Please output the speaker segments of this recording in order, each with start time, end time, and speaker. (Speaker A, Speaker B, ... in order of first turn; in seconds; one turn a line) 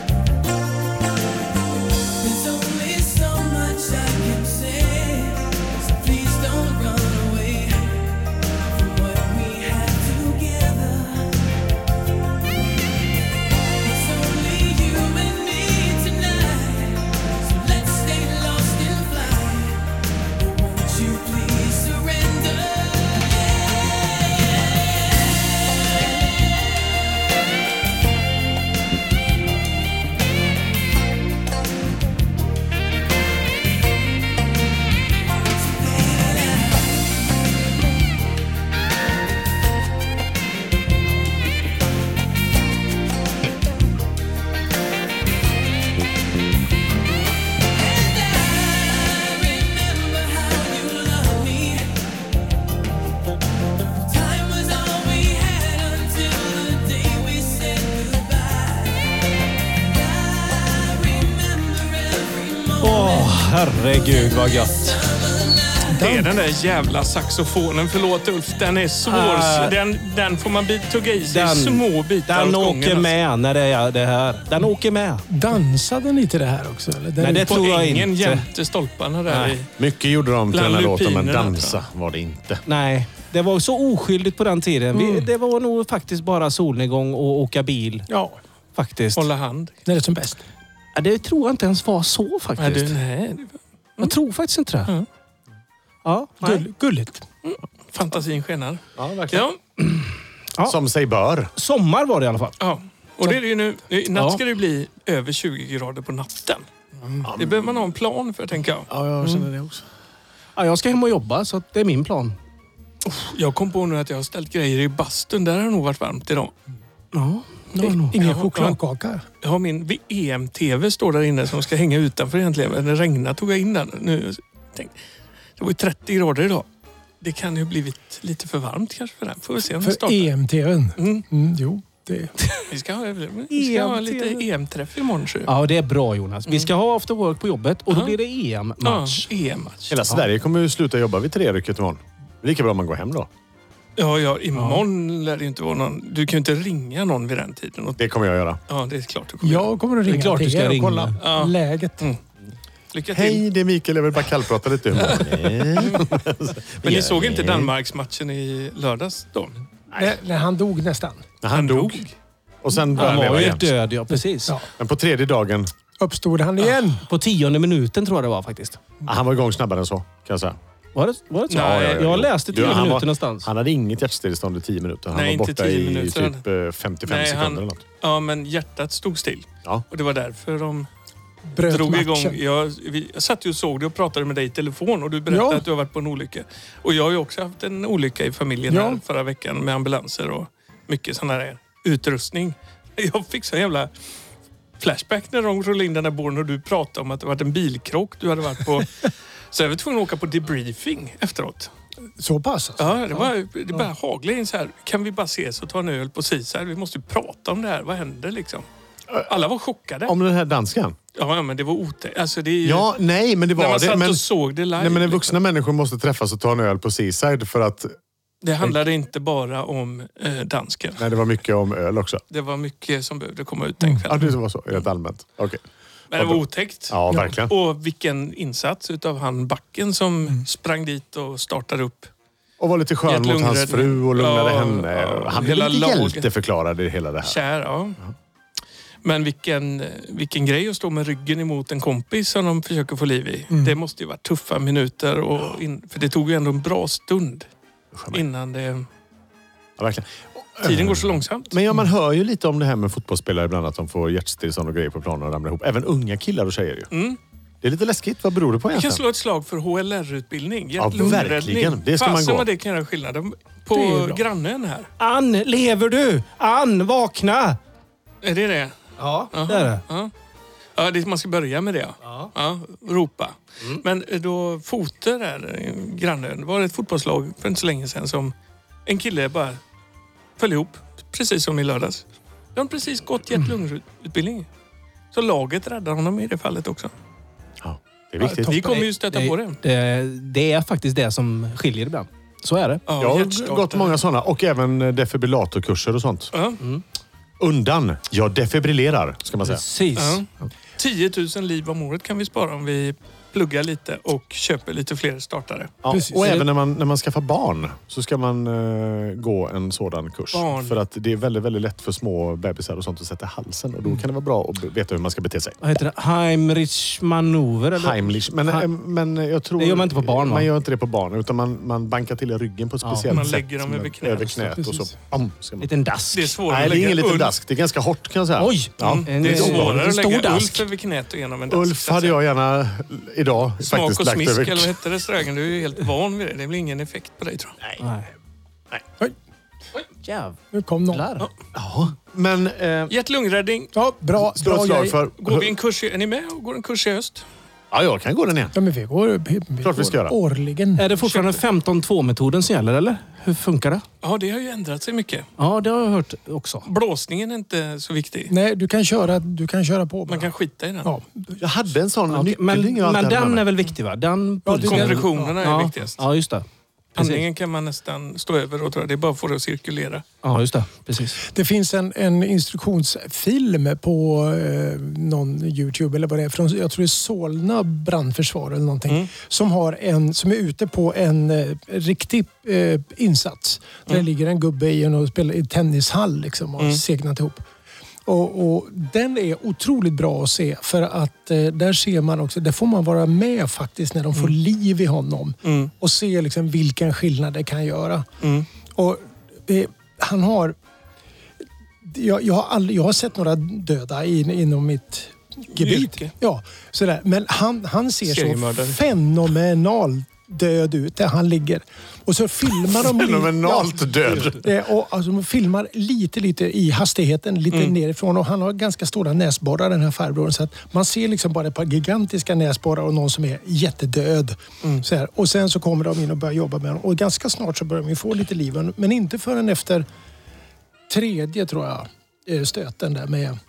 Speaker A: 2.2-11.3
Speaker A: 13.8-27.0
Speaker A: 35.3-37.1
Speaker A: 47.7-51.9
Speaker A: 54.0-59.2
Speaker A: 59.8-66.0
Speaker B: 62.8-65.0
Speaker C: 65.9-66.3
Speaker D: 66.0-73.1
Speaker B: 69.1-69.8
Speaker B: 71.2-75.2
Speaker C: 75.3-77.5
Speaker B: 77.2-78.5
Speaker D: 77.5-79.7
Speaker B: 79.3-79.5
Speaker E: 79.8-82.6
Speaker D: 80.5-81.8
Speaker B: 82.7-88.1
Speaker C: 88.1-88.4
Speaker B: 88.7-89.2
Speaker D: 89.2-89.8
Speaker C: 89.8-90.4
Speaker B: 90.9-92.9
Speaker D: 92.6-94.1
Speaker B: 94.0-94.9
Speaker B: 96.0-96.6
Speaker C: 96.4-97.2
Speaker D: 97.4-99.6
Speaker E: 99.0-99.5
Speaker B: 99.8-100.8
Speaker E: 100.6-101.5
Speaker B: 101.5-102.5
Speaker D: 102.6-106.7
Speaker B: 104.1-104.4
Speaker D: 107.2-108.9
Speaker E: 107.2-107.8
Speaker E: 108.9-109.8
Speaker B: 110.5-112.3
Speaker D: 113.0-116.5
Speaker B: 117.1-118.1
Speaker D: 117.8-118.8
Speaker C: 117.9-119.2
Speaker D: 119.4-124.9
Speaker D: 125.6-126.7
Speaker D: 127.2-130.3
Speaker C: 129.8-132.3
Speaker D: 131.0-131.2
Speaker D: 132.7-135.5
Speaker B: 133.5-134.5
Speaker B: 135.4-139.3
Speaker D: 137.9-138.2
Speaker D: 138.8-140.0
Speaker E: 139.9-143.3
Speaker D: 144.0-148.0
Speaker B: 144.5-144.8
Speaker E: 148.0-148.6
Speaker D: 148.7-149.7
Speaker C: 149.4-152.0
Speaker B: 150.1-151.2
Speaker D: 151.2-152.2
Speaker D: 152.9-153.4
Speaker E: 153.1-157.7
Speaker D: 154.9-156.1
Speaker D: 156.8-159.5
Speaker E: 159.9-160.2
Speaker C: 159.9-161.2
Speaker E: 161.4-162.1
Speaker D: 161.5-162.1
Speaker E: 162.6-163.7
Speaker B: 162.9-164.5
Speaker D: 163.1-163.4
Speaker E: 164.8-165.7
Speaker C: 166.0-167.0
Speaker B: 167.0-168.8
Speaker E: 169.0-170.6
Speaker B: 170.9-173.5
Speaker D: 171.5-172.9
Speaker E: 171.5-177.8
Speaker D: 175.1-176.4
Speaker D: 177.0-180.9
Speaker C: 181.5-182.4
Speaker D: 181.7-193.9
Speaker C: 185.3-185.6
Speaker C: 188.7-189.0
Speaker D: 194.8-201.7
Speaker C: 202.2-203.9
Speaker D: 202.8-208.7
Speaker D: 209.2-210.1
Speaker E: 210.0-211.0
Speaker D: 211.1-212.9
Speaker E: 212.6-214.2
Speaker D: 213.5-215.4
Speaker E: 214.7-217.9
Speaker D: 218.4-221.0
Speaker E: 221.0-222.2
Speaker D: 222.3-224.3
Speaker E: 224.1-225.6
Speaker D: 226.1-232.1
Speaker E: 226.1-227.5
Speaker E: 232.6-237.4
Speaker D: 233.1-236.3
Speaker D: 237.2-238.0
Speaker D: 239.0-247.5
Speaker E: 247.9-248.2
Speaker D: 248.1-248.8
Speaker E: 249.8-256.9
Speaker D: 250.6-251.6
Speaker D: 256.9-257.2
Speaker E: 257.6-259.0
Speaker D: 258.7-264.9
Speaker E: 260.8-262.5
Speaker C: 263.7-264.2
Speaker B: 265.0-267.6
Speaker D: 268.2-268.7
Speaker B: 269.0-269.8
Speaker D: 269.3-270.1
Speaker D: 270.8-278.3
Speaker B: 272.0-272.3
Speaker D: 278.9-279.6
Speaker D: 280.4-282.0
Speaker D: 282.6-284.5
Speaker D: 285.1-286.9
Speaker E: 287.6-288.7
Speaker C: 288.2-288.8
Speaker D: 288.4-289.6
Speaker B: 288.7-292.8
Speaker D: 292.9-294.0
Speaker E: 293.0-296.3
Speaker D: 296.3-296.6
Speaker E: 297.4-299.6
Speaker B: 299.4-300.2
Speaker D: 299.9-300.2
Speaker D: 300.8-305.7
Speaker E: 305.8-315.6
Speaker C: 305.9-306.3
Speaker D: 310.3-310.8
Speaker B: 315.6-318.7
Speaker E: 317.7-325.7
Speaker B: 319.6-320.5
Speaker B: 322.8-323.1
Speaker D: 323.1-324.4
Speaker C: 324.4-324.9
Speaker B: 325.6-326.4
Speaker D: 326.1-327.3
Speaker E: 326.5-329.8
Speaker B: 328.4-330.6
Speaker D: 328.8-332.2
Speaker E: 331.5-334.8
Speaker D: 333.6-337.6
Speaker B: 337.8-338.1
Speaker B: 340.0-340.4
Speaker C: 340.5-341.1
Speaker B: 340.9-341.3
Speaker E: 341.5-342.9
Speaker D: 342.9-343.7
Speaker C: 343.7-345.0
Speaker E: 344.1-345.5
Speaker D: 345.2-347.2
Speaker E: 347.7-348.5
Speaker C: 348.5-350.9
Speaker E: 349.6-350.1
Speaker B: 350.8-353.8
Speaker D: 351.0-351.4
Speaker D: 354.0-355.3
Speaker B: 355.4-356.7
Speaker D: 356.6-358.3
Speaker C: 358.3-360.3
Speaker D: 360.1-360.9
Speaker C: 360.8-361.4
Speaker E: 361.4-363.5
Speaker B: 362.1-366.4
Speaker C: 364.4-365.3
Speaker D: 364.6-366.0
Speaker D: 366.9-370.0
Speaker B: 367.0-367.2
Speaker B: 370.2-371.2
Speaker C: 371.2-387.4
Speaker D: 386.6-386.8
Speaker C: 388.1-398.1
Speaker D: 395.4-395.7
Speaker D: 398.2-398.5
Speaker C: 398.7-400.6
Speaker C: 401.8-429.9
Speaker D: 405.6-406.1
Speaker D: 408.0-408.8
Speaker E: 412.9-414.5
Speaker D: 417.5-417.8
Speaker C: 430.9-433.4